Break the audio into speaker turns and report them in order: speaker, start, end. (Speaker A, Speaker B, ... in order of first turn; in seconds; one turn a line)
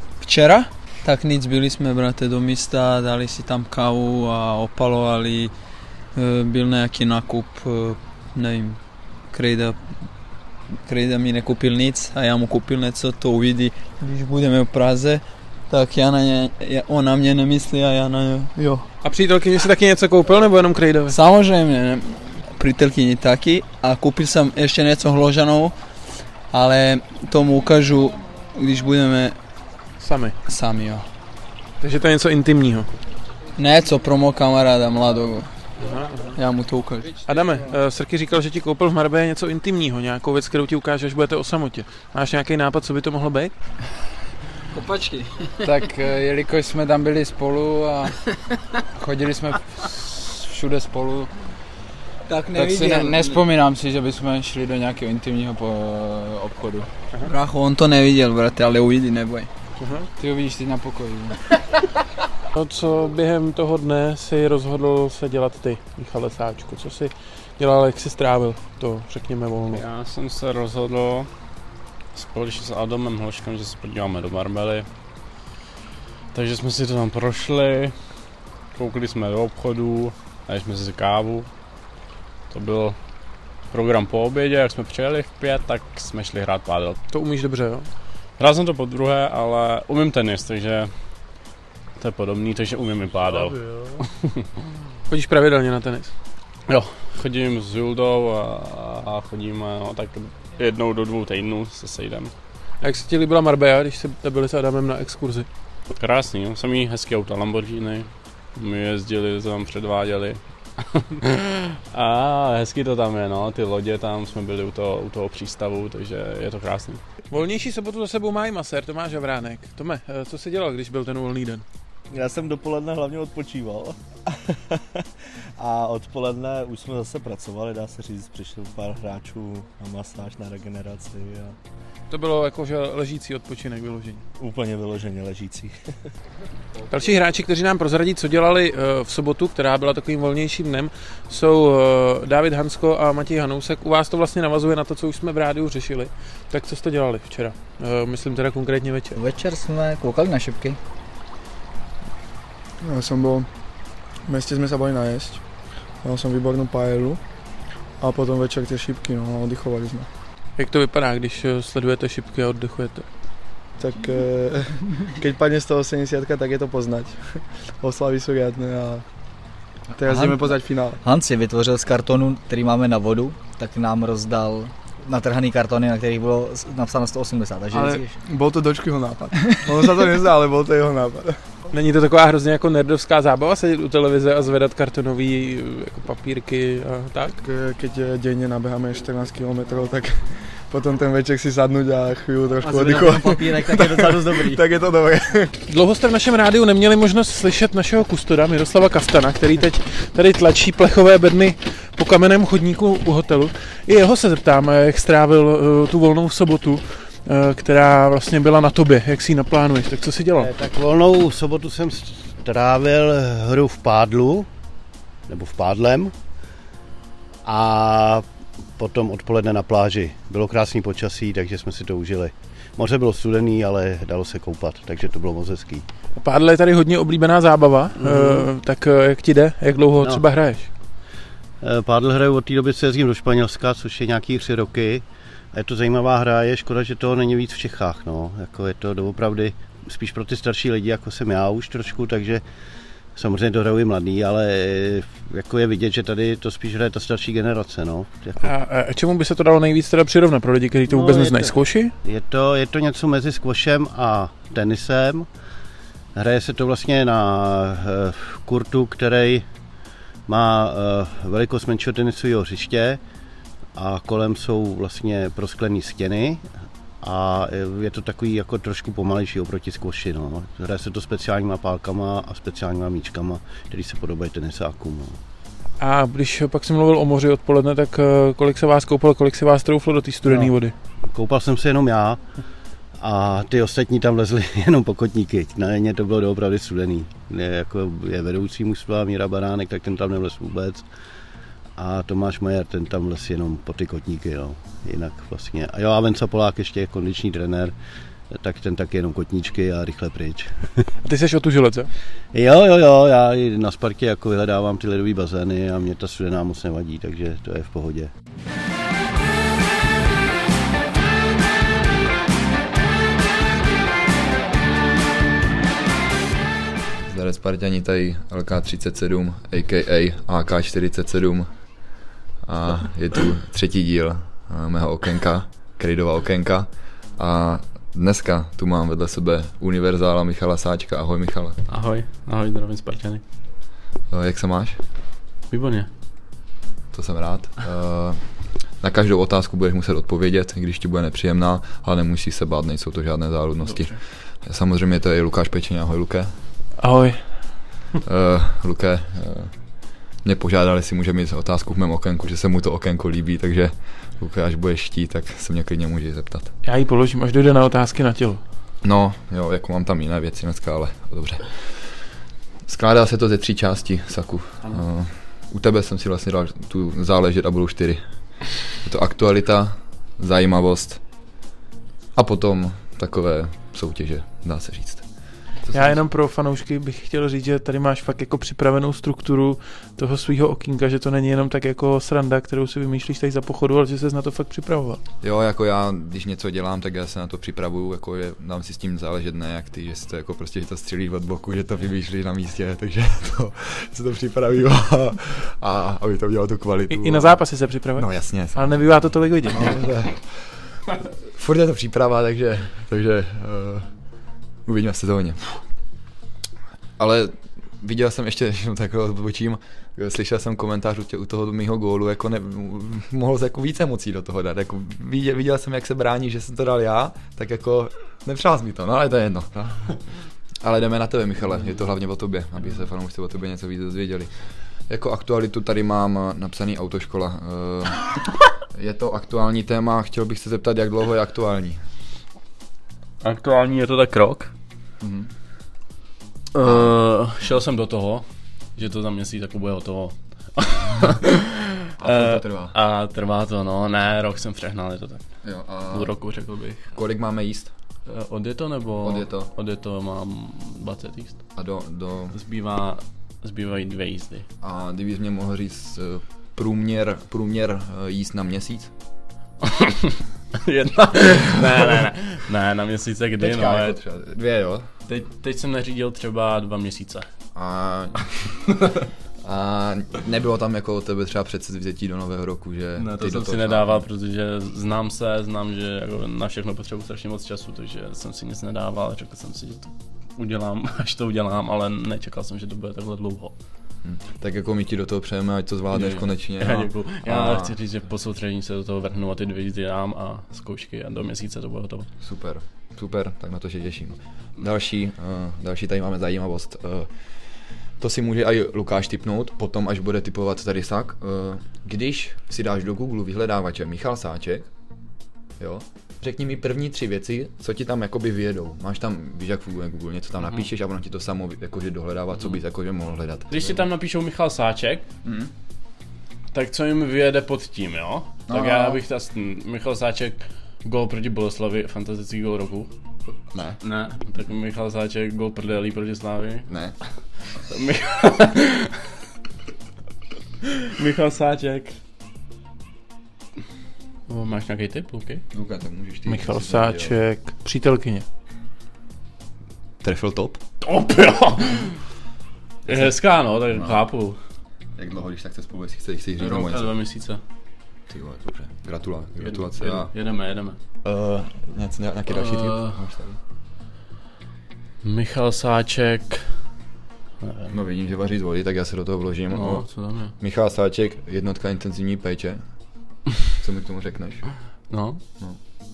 Speaker A: 0.2-5.5
Speaker A: 6.1-8.8
Speaker A: 9.3-9.8
Speaker A: 10.9-18.7
Speaker B: 18.6-18.8
Speaker C: 19.0-21.1
Speaker A: 21.1-25.7
Speaker A: 26.5-29.3
Speaker C: 30.0-30.3
Speaker A: 30.5-31.1
Speaker C: 31.8-32.9
Speaker A: 33.6-35.5
Speaker C: 35.8-36.3
Speaker A: 36.4-37.2
Speaker C: 37.2-43.5
Speaker A: 44.7-45.2
Speaker D: 45.8-48.0
Speaker D: 49.0-49.6
Speaker D: 50.2-51.3
Speaker A: 52.3-53.5
Speaker D: 53.8-56.9
Speaker A: 57.2-59.5
Speaker C: 59.8-60.1
Speaker D: 60.2-61.3
Speaker C: 62.5-69.8
Speaker E: 69.7-71.3
Speaker E: 72.1-74.9
Speaker E: 76.3-77.9
Speaker E: 78.7-81.5
Speaker E: 82.5-83.0
Speaker E: 83.7-87.0
Speaker C: 87.1-87.9
Speaker E: 88.4-90.9
Speaker E: 92.0-93.5
Speaker F: 93.1-94.0
Speaker C: 95.1-96.1
Speaker E: 96.7-102.3
Speaker C: 102.8-105.5
Speaker E: 106.0-110.4
Speaker E: 111.2-117.0
Speaker C: 117.3-121.6
Speaker F: 122.1-125.0
Speaker F: 125.5-131.6
Speaker C: 132.1-134.2
Speaker F: 134.3-135.7
Speaker C: 136.9-149.2
Speaker G: 149.1-150.8
Speaker B: 152.8-153.5
Speaker B: 154.2-155.4
Speaker B: 156.0-157.2
Speaker B: 158.0-160.1
Speaker C: 160.6-163.0
Speaker B: 163.8-169.0
Speaker B: 170.0-171.0
Speaker G: 170.0-178.1
Speaker B: 177.7-181.4
Speaker C: 181.7-187.4
Speaker B: 187.4-195.5
Speaker G: 192.6-194.6
Speaker C: 195.7-210.5
Speaker H: 210.4-214.5
Speaker H: 215.3-216.1
Speaker H: 217.4-218.2
Speaker H: 218.8-225.8
Speaker C: 226.2-230.7
Speaker H: 228.0-228.4
Speaker H: 230.0-230.2
Speaker H: 231.6-242.4
Speaker H: 243.1-248.5
Speaker C: 248.4-251.9
Speaker H: 250.8-255.3
Speaker H: 256.1-259.4
Speaker H: 260.3-263.0
Speaker H: 263.7-266.4
Speaker H: 267.0-275.2
Speaker C: 275.8-280.7
Speaker H: 280.2-280.6
Speaker H: 281.1-282.2
Speaker H: 283.0-290.8
Speaker H: 291.8-297.7
Speaker H: 298.3-300.8
Speaker C: 301.0-301.9
Speaker H: 302.3-308.1
Speaker I: 317.0-331.6
Speaker E: 331.7-333.2
Speaker I: 334.1-334.8
Speaker E: 335.5-335.9
Speaker I: 336.9-346.3
Speaker E: 343.6-343.9
Speaker C: 346.8-347.2
Speaker I: 348.0-349.5
Speaker I: 350.2-356.5
Speaker C: 356.6-358.4
Speaker I: 358.8-361.6
Speaker I: 362.6-371.0
Speaker I: 372.1-375.1
Speaker I: 375.6-376.0
Speaker C: 375.7-385.0
Speaker I: 385.2-403.9
Speaker C: 396.9-399.8
Speaker I: 404.6-405.6
Speaker I: 407.0-420.0
Speaker I: 420.6-424.3
Speaker I: 424.9-428.2
Speaker I: 428.7-431.8
Speaker E: 433.2-434.5
Speaker I: 435.0-435.3
Speaker E: 436.5-438.2
Speaker I: 436.6-436.9
Speaker E: 438.8-445.2
Speaker I: 442.0-442.8
Speaker I: 445.4-446.1
Speaker E: 445.9-446.9
Speaker I: 446.9-447.7
Speaker E: 448.1-451.4
Speaker I: 449.0-449.5
Speaker I: 451.5-452.4
Speaker E: 452.3-454.4
Speaker I: 454.6-458.9
Speaker E: 459.7-460.1
Speaker E: 460.6-464.0
Speaker I: 463.4-464.9
Speaker E: 465.1-467.3
Speaker I: 467.5-468.6
Speaker I: 469.4-474.1
Speaker E: 472.9-483.5
Speaker I: 484.0-487.8
Speaker E: 485.9-492.1
Speaker I: 492.2-497.1
Speaker I: 498.0-504.7
Speaker I: 505.6-513.9
Speaker E: 513.5-515.0
Speaker I: 515.2-515.5
Speaker E: 516.5-522.9
Speaker I: 518.5-519.0
Speaker I: 523.5-523.8
Speaker E: 523.8-526.7
Speaker I: 526.7-526.9
Speaker E: 527.7-528.9
Speaker E: 530.6-532.0
Speaker E: 534.3-535.4
Speaker I: 535.5-537.2
Speaker C: 536.3-538.2
Speaker I: 540.0-540.6
Speaker E: 540.8-541.9
Speaker E: 542.9-544.4
Speaker I: 543.7-544.0
Speaker I: 545.0-546.9
Speaker E: 546.4-547.4
Speaker I: 548.1-550.1
Speaker E: 549.4-550.8
Speaker I: 551.0-553.4
Speaker E: 552.3-553.0
Speaker E: 555.0-556.5
Speaker E: 557.4-557.7
Speaker I: 557.7-562.6
Speaker E: 559.5-560.3
Speaker I: 563.6-564.4
Speaker E: 564.9-565.2